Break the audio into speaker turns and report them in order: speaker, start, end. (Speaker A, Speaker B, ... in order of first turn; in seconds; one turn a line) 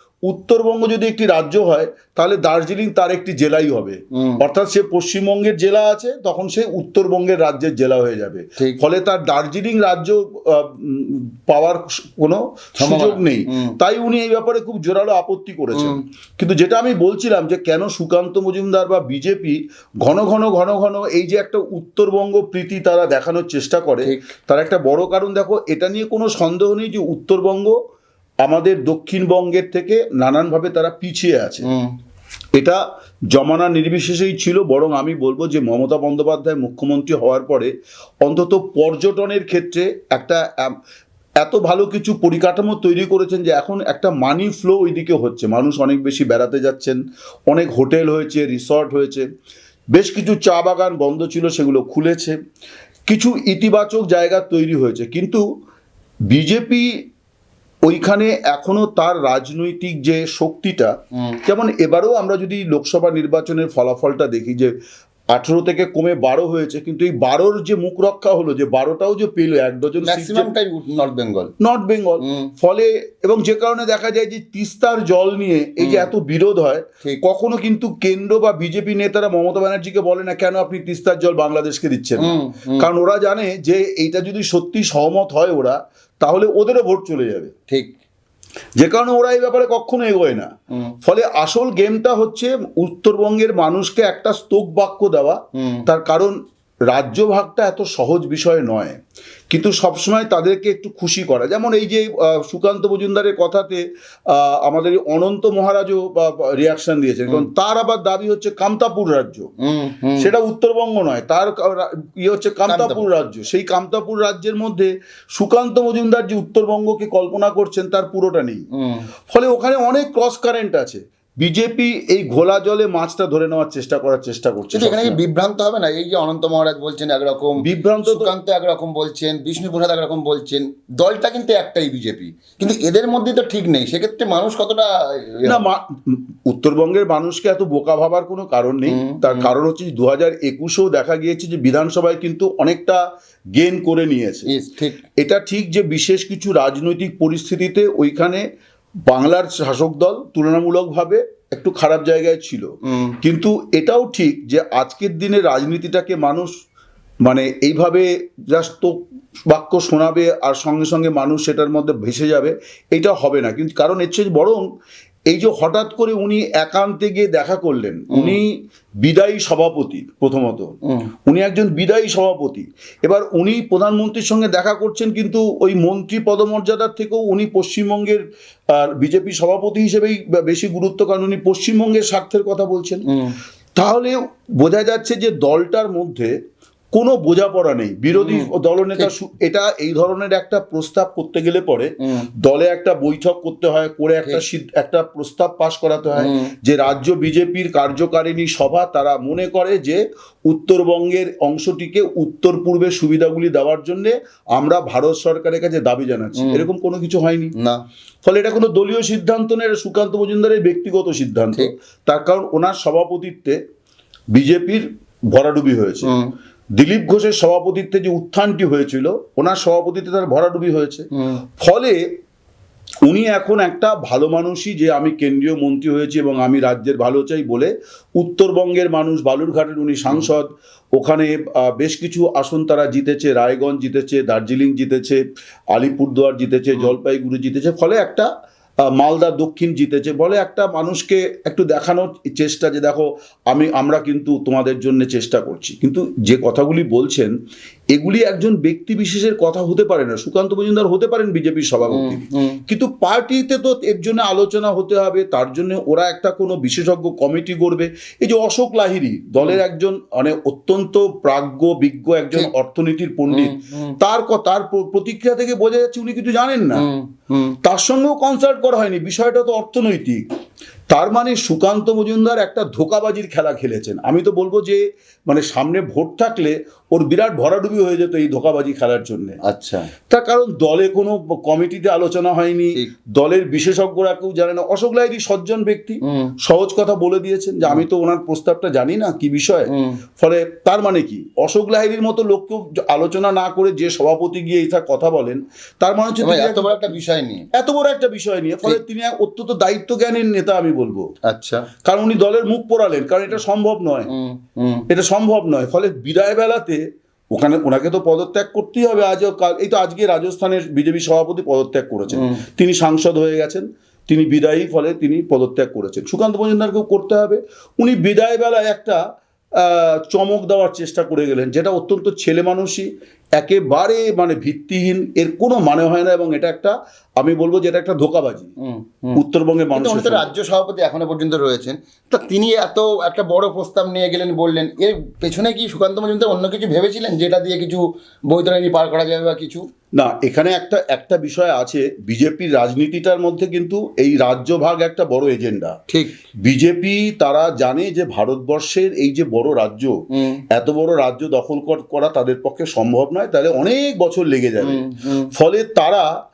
Speaker A: 0.3-27.8
Speaker B: 4.2-4.4
Speaker B: 12.8-13.8
Speaker B: 15.8-16.0
Speaker B: 24.0-24.3
Speaker A: 28.4-31.7
Speaker B: 31.6-31.9
Speaker A: 33.3-37.7
Speaker A: 38.2-40.7
Speaker A: 41.4-49.3
Speaker A: 49.9-52.4
Speaker A: 53.1-55.4
Speaker A: 56.3-56.9
Speaker A: 57.9-60.9
Speaker B: 61.2-61.4
Speaker A: 61.5-64.7
Speaker A: 65.3-70.5
Speaker B: 70.0-71.5
Speaker A: 71.6-87.5
Speaker B: 72.2-72.5
Speaker B: 75.8-76.1
Speaker B: 82.2-82.9
Speaker B: 87.7-87.9
Speaker A: 88.8-90.5
Speaker A: 91.0-96.4
Speaker B: 95.6-95.9
Speaker A: 96.9-99.0
Speaker A: 99.5-109.5
Speaker B: 109.6-110.3
Speaker A: 110.2-118.7
Speaker B: 112.7-113.1
Speaker B: 118.8-119.1
Speaker A: 119.3-125.2
Speaker B: 124.7-135.7
Speaker A: 127.6-128.3
Speaker A: 135.5-143.0
Speaker B: 138.9-139.5
Speaker A: 143.6-144.5
Speaker B: 144.5-145.0
Speaker A: 145.2-148.4
Speaker A: 149.1-152.7
Speaker B: 152.9-153.2
Speaker A: 153.2-156.5
Speaker A: 157.2-159.0
Speaker A: 159.5-164.7
Speaker A: 165.3-168.5
Speaker B: 168.1-168.4
Speaker A: 169.0-170.7
Speaker A: 171.3-183.1
Speaker B: 183.1-183.4
Speaker A: 183.8-186.3
Speaker A: 186.9-207.5
Speaker B: 188.1-189.1
Speaker B: 196.2-196.5
Speaker B: 206.4-206.7
Speaker B: 207.6-207.8
Speaker A: 208.2-213.6
Speaker A: 214.3-216.1
Speaker B: 216.0-216.3
Speaker A: 216.8-221.1
Speaker A: 221.6-222.0
Speaker A: 223.1-235.2
Speaker A: 235.7-238.3
Speaker A: 238.9-247.3
Speaker A: 247.9-266.9
Speaker B: 251.9-252.6
Speaker B: 263.3-264.0
Speaker B: 266.7-267.6
Speaker A: 267.6-270.2
Speaker A: 270.9-279.4
Speaker B: 279.4-279.9
Speaker A: 280.1-296.9
Speaker B: 286.1-286.3
Speaker B: 289.7-290.0
Speaker B: 296.2-297.5
Speaker A: 297.5-301.1
Speaker B: 301.3-301.6
Speaker A: 301.9-304.1
Speaker B: 304.1-304.9
Speaker A: 304.9-319.0
Speaker B: 312.1-312.4
Speaker A: 319.6-328.5
Speaker B: 328.6-329.2
Speaker A: 329.1-330.3
Speaker B: 329.7-339.6
Speaker A: 340.0-345.8
Speaker B: 345.9-346.2
Speaker A: 346.4-349.9
Speaker B: 350.1-350.4
Speaker A: 350.5-356.1
Speaker B: 354.6-355.3